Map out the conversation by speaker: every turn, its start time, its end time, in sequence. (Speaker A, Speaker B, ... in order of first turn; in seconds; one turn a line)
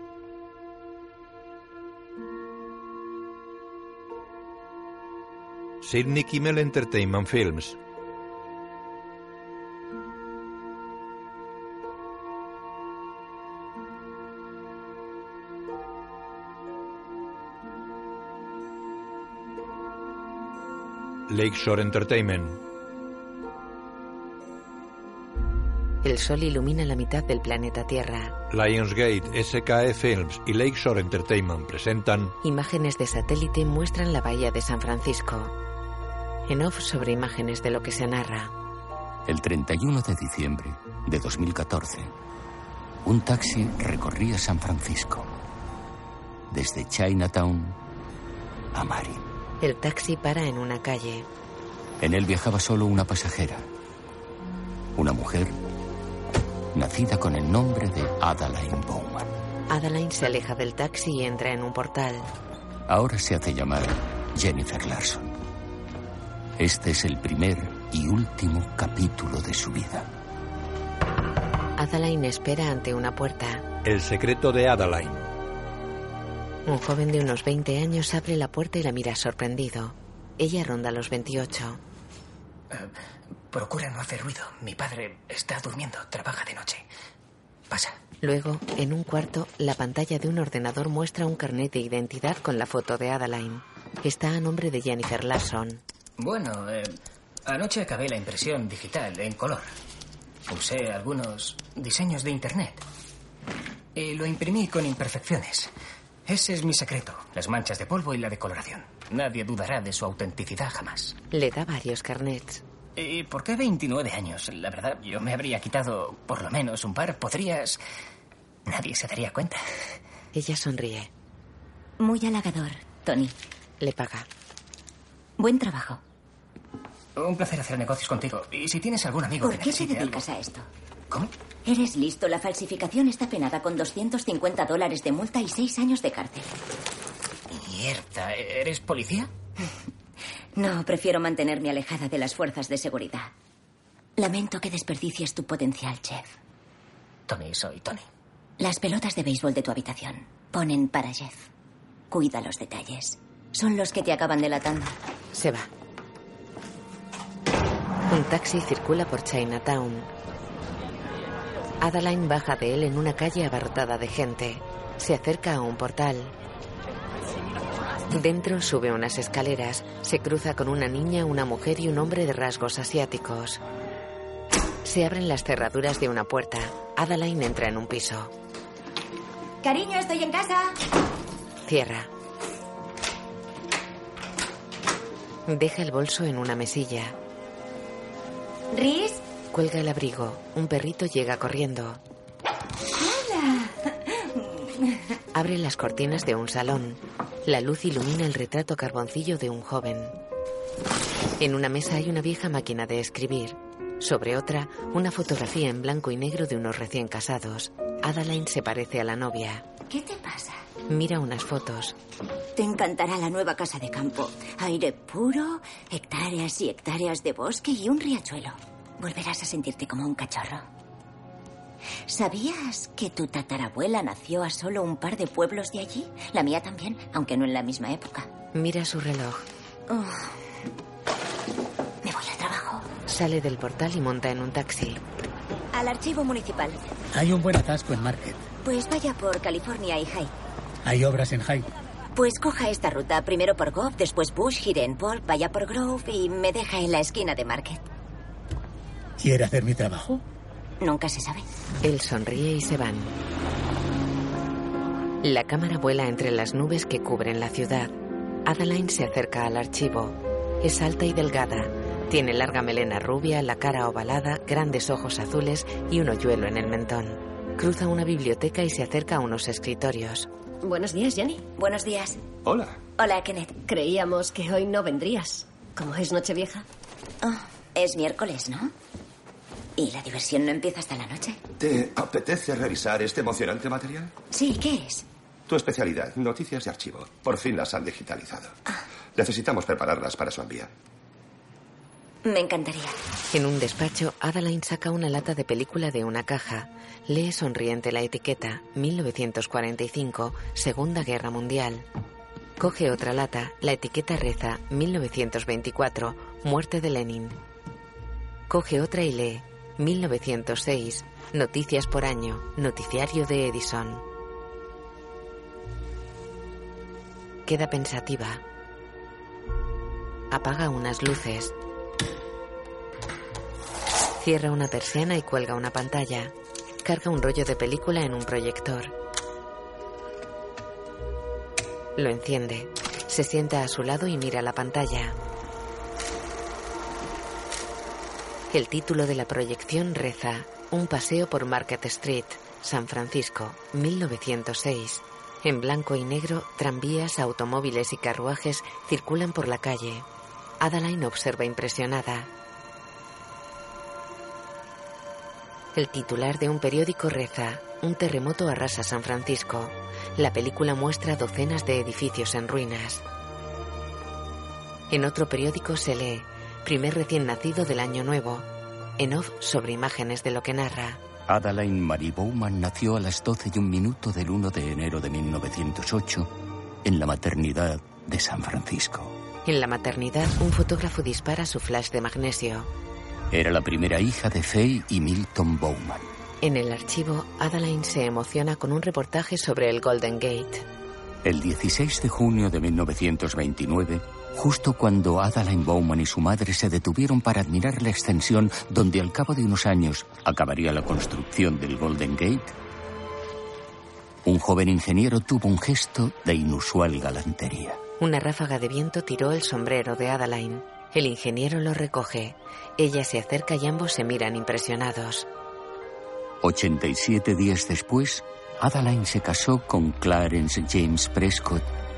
Speaker A: 5.8-7.8
Speaker A: 21.3-22.6
Speaker B: 26.0-28.4
Speaker A: 28.5-32.4
Speaker B: 32.4-35.5
Speaker B: 36.5-38.5
Speaker C: 39.3-42.1
Speaker C: 43.0-45.3
Speaker C: 46.5-47.8
Speaker C: 48.7-49.2
Speaker B: 49.6-51.3
Speaker C: 52.0-53.7
Speaker C: 55.0-55.6
Speaker C: 56.7-59.3
Speaker B: 59.7-62.3
Speaker C: 62.9-65.3
Speaker C: 66.6-70.1
Speaker B: 71.8-73.7
Speaker A: 73.8-75.3
Speaker B: 76.7-81.8
Speaker D: 83.5-86.9
Speaker D: 87.7-88.0
Speaker B: 88.2-95.8
Speaker D: 96.2-99.7
Speaker D: 100.5-102.8
Speaker D: 104.0-105.7
Speaker D: 106.3-111.2
Speaker B: 111.3-112.6
Speaker D: 113.0-117.8
Speaker D: 118.7-119.6
Speaker B: 120.3-121.1
Speaker E: 122.0-123.4
Speaker B: 123.8-124.3
Speaker E: 125.4-126.0
Speaker D: 127.2-130.2
Speaker E: 129.4-130.7
Speaker E: 131.7-136.5
Speaker D: 137.5-139.3
Speaker E: 140.6-143.3
Speaker E: 144.2-146.3
Speaker D: 147.3-148.1
Speaker E: 148.6-151.5
Speaker E: 152.1-154.9
Speaker B: 155.3-155.7
Speaker B: 158.1-160.1
Speaker B: 161.8-166.3
Speaker B: 168.1-173.6
Speaker B: 174.8-178.3
Speaker E: 179.6-180.8
Speaker B: 181.7-182.1
Speaker B: 185.5-187.2
Speaker E: 188.7-189.2
Speaker B: 189.5-192.0
Speaker E: 193.0-193.8
Speaker B: 195.3-200.1
Speaker B: 201.4-209.7
Speaker E: 209.9-210.6
Speaker B: 210.9-212.0
Speaker E: 212.6-220.7
Speaker E: 222.1-228.3
Speaker B: 228.5-229.4
Speaker E: 229.9-230.3
Speaker E: 232.0-232.9
Speaker B: 233.1-235.0
Speaker E: 235.7-236.8
Speaker F: 237.1-238.5
Speaker E: 238.6-240.3
Speaker F: 240.8-241.7
Speaker E: 242.2-247.8
Speaker F: 249.2-250.2
Speaker E: 250.8-251.5
Speaker B: 251.8-253.2
Speaker B: 255.2-257.9
Speaker B: 258.5-270.3
Speaker G: 270.6-271.4
Speaker E: 271.6-272.2
Speaker H: 272.4-272.8
Speaker E: 273.0-273.6
Speaker G: 273.7-276.6
Speaker E: 277.2-278.7
Speaker E: 279.8-281.4
Speaker H: 281.6-284.1
Speaker E: 284.3-285.1
Speaker H: 285.5-288.6
Speaker H: 289.1-290.7
Speaker E: 292.2-293.0
Speaker B: 293.3-301.9
Speaker B: 302.6-307.4
Speaker B: 308.5-314.0
Speaker B: 317.5-318.4
Speaker B: 320.3-321.6
Speaker B: 324.2-328.9
Speaker B: 332.0-335.2
Speaker B: 338.5-350.1
Speaker B: 350.6-352.3
Speaker B: 355.8-363.0
Speaker B: 364.9-368.5
Speaker B: 369.0-371.0
Speaker C: 371.3-376.3
Speaker C: 376.8-379.1
Speaker B: 379.4-382.7
Speaker C: 383.3-386.1
Speaker B: 386.4-390.6
Speaker C: 391.2-402.6
Speaker C: 404.2-407.8
Speaker B: 408.0-415.3
Speaker C: 416.4-421.7